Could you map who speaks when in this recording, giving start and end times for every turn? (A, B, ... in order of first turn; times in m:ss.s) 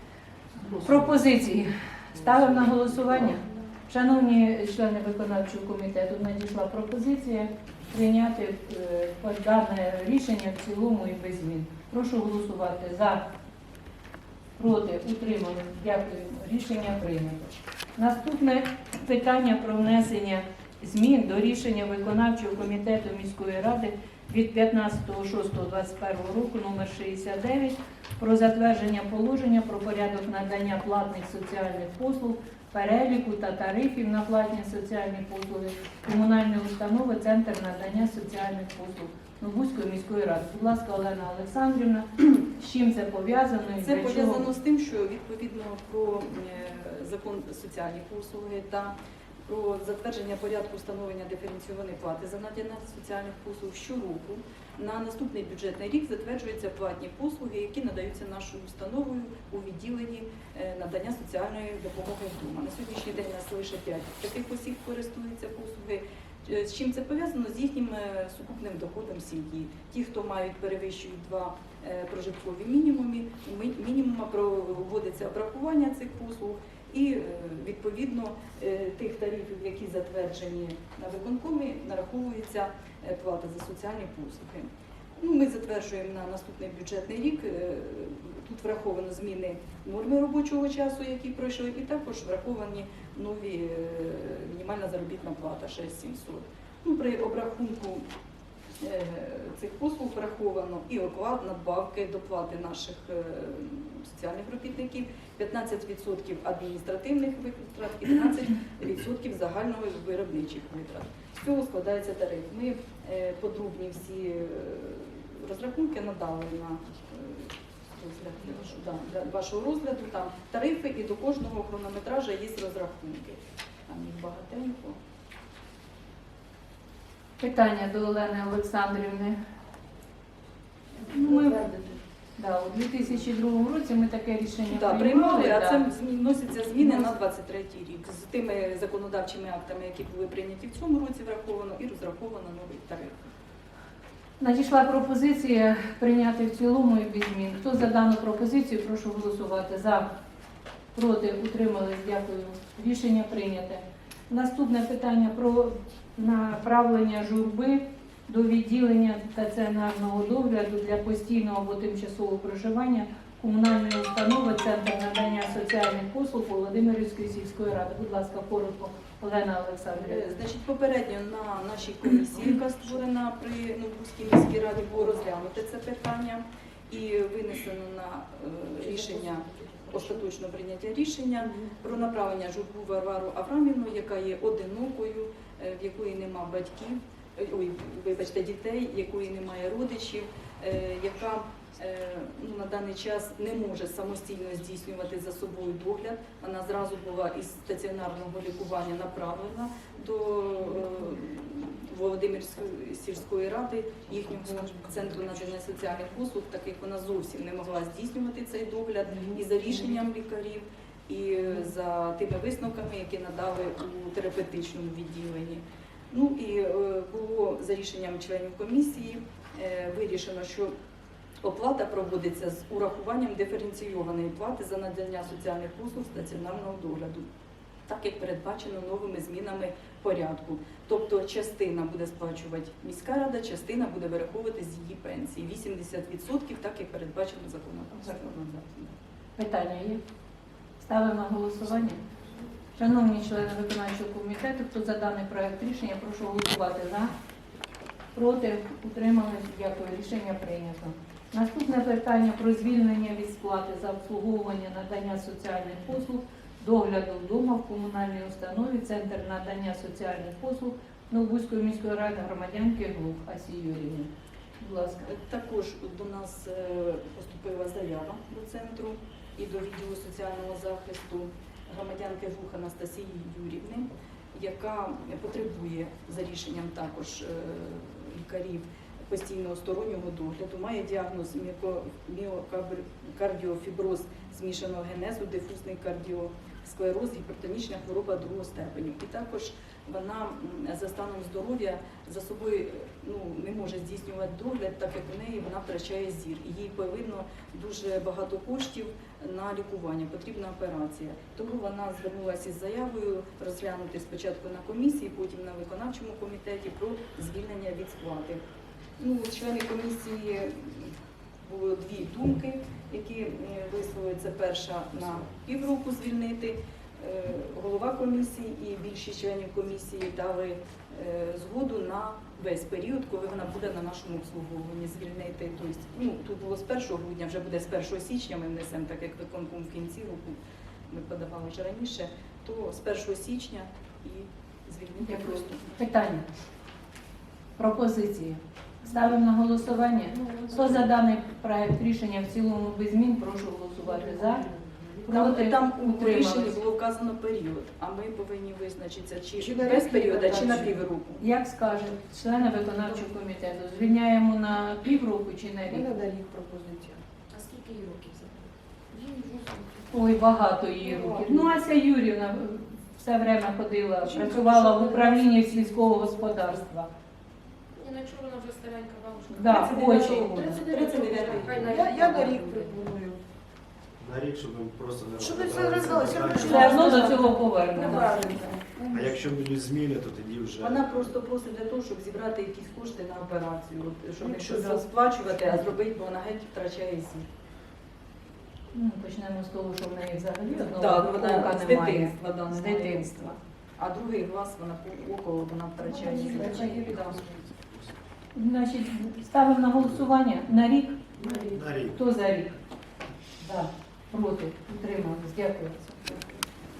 0:00.7-0:13.2 A
0:14.6-0:44.5 A
0:43.8-0:48.9 B
0:49.5-1:38.0 B
1:38.8-2:05.0 B
2:07.4-2:09.4 A
2:11.1-2:15.8 A
2:11.1-2:11.9 C
2:14.7-2:23.3 B
2:16.8-2:17.1 A
2:24.4-2:30.1 A
2:30.9-2:50.3 A
2:49.9-3:40.7 B
2:58.8-3:00.2 C
3:01.4-3:01.7 C
3:24.4-3:24.9 C
3:41.4-3:47.2 B
3:47.9-3:58.9 B
3:59.4-4:00.0 A
4:00.8-4:02.0 A
4:02.8-4:07.1 A
4:08.1-4:25.1 A
4:25.1-5:08.4 B
5:09.0-5:30.4 B
5:30.9-5:35.7 B
5:35.0-5:36.2 A
5:37.6-5:44.4 A
5:40.2-5:40.8 C
5:44.2-5:44.8 C
5:45.0-5:46.6 A
5:45.1-5:51.2 B
5:49.4-5:50.8 C
5:51.2-5:55.9 A
5:55.7-5:57.0 C
5:57.3-5:58.3 D
5:58.9-5:59.7 D
5:59.9-6:06.9 A
6:00.8-6:01.6 C
6:04.1-6:05.6 C
6:07.8-6:12.7 D
6:09.3-6:10.6 A
6:09.3-6:12.5 B
6:10.3-6:13.2 C
6:14.0-6:17.1 E
6:15.2-6:19.4 C
6:16.4-6:18.5 A
6:16.4-6:17.4 B
6:18.9-6:21.1 E
6:20.6-6:27.2 B
6:24.2-6:24.8 C
6:28.7-6:33.4 A
6:30.5-6:37.2 B
6:35.8-6:37.4 C
6:38.3-6:41.0 A
6:41.2-6:41.6 C
6:41.5-6:42.0 E
6:41.9-6:42.5 A
6:43.4-6:46.4 A